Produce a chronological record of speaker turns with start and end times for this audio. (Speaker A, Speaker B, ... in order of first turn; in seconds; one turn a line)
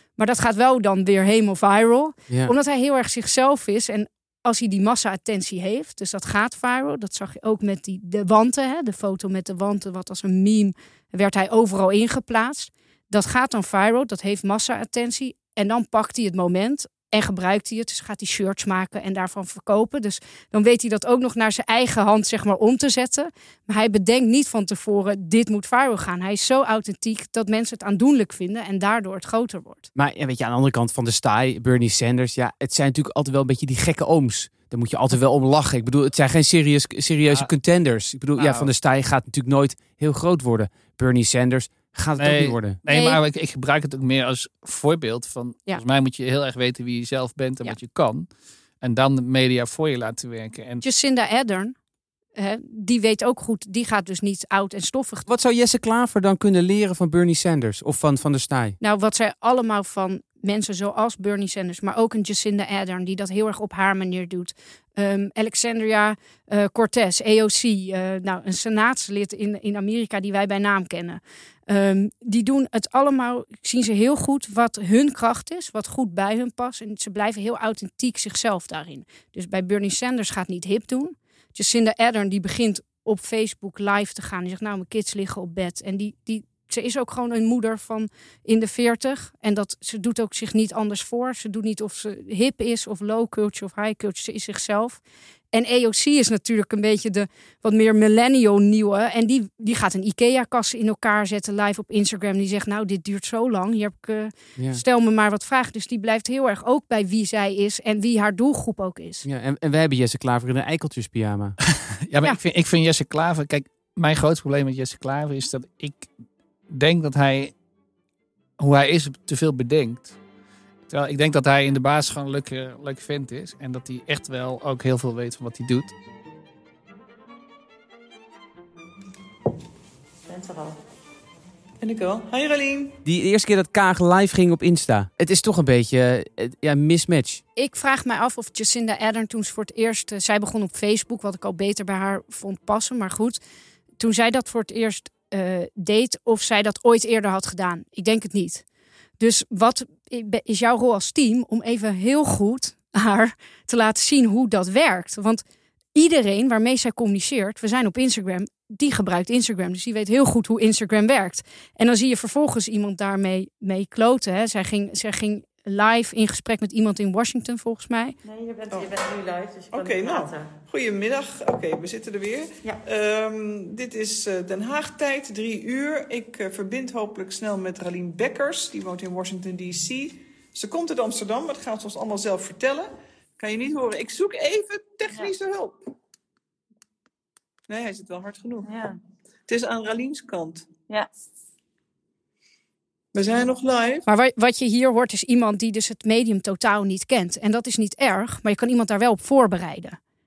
Speaker A: 0.2-29.9
Speaker B: 29.9-42.8
Speaker C: 37.3-37.5
Speaker C: 38.4-38.7
Speaker C: 42.2-48.3
Speaker A: 42.9-43.2
Speaker C: 48.8-50.8
Speaker A: 50.8-51.8
Speaker A: 52.4-55.3
Speaker B: 55.3-58.8
Speaker A: 58.8-95.0
Speaker A: 95.5-109.2
Speaker B: 109.2-111.6
Speaker C: 111.8-116.1
Speaker C: 116.7-117.5
Speaker C: 118.6-120.2
Speaker C: 120.9-125.9
Speaker D: 130.3-130.8
Speaker E: 131.8-133.0
Speaker B: 133.0-137.4
Speaker A: 137.6-143.4
Speaker A: 144.0-148.6
Speaker A: 149.2-155.4
Speaker A: 155.9-168.2
Speaker D: 168.2-170.6
Speaker E: 168.7-169.0
Speaker E: 169.7-185.8
Speaker E: 187.7-188.7
Speaker D: 188.6-189.0
Speaker E: 189.5-190.7
Speaker E: 193.1-194.1
Speaker A: 194.1-200.0